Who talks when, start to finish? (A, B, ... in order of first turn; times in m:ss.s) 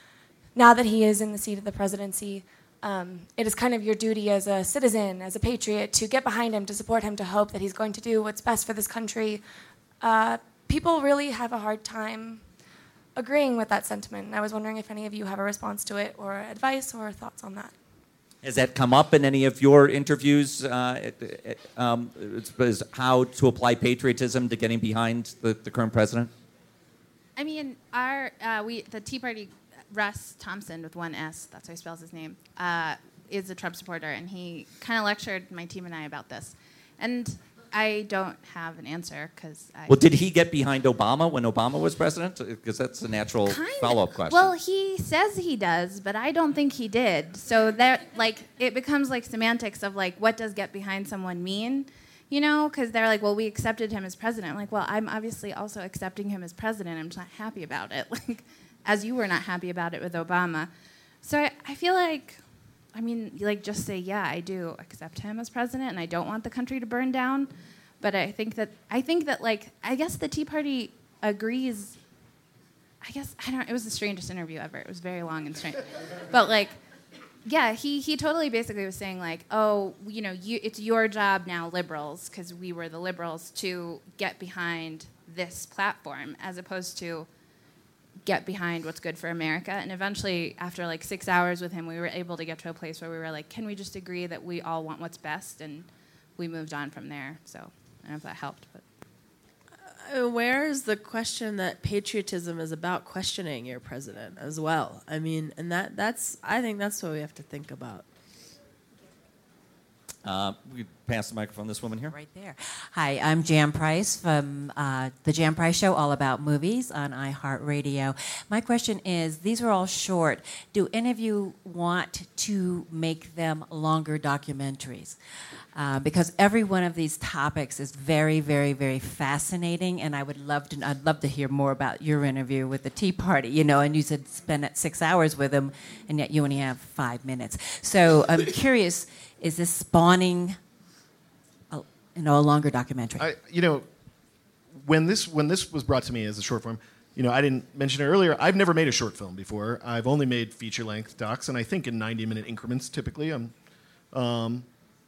0:00.6-0:09.4 A
0:10.0-0:12.5 A
0:13.2-0:17.7 A
0:18.4-0:26.3 B
0:27.4-0:40.0 C
0:39.9-0:44.5 B
0:43.5-1:00.7 C
1:01.2-1:02.4 C
1:02.9-1:12.0 C
1:13.0-1:16.8 C
1:17.4-1:27.3 C
1:28.2-1:38.8 C
1:39.8-1:48.1 D
1:50.2-1:52.1 B
1:52.1-2:05.2 E
2:05.8-2:20.6 E
2:21.7-2:23.3 E
2:23.2-2:23.9 F
2:24.8-2:33.5 F
2:34.1-2:34.7 F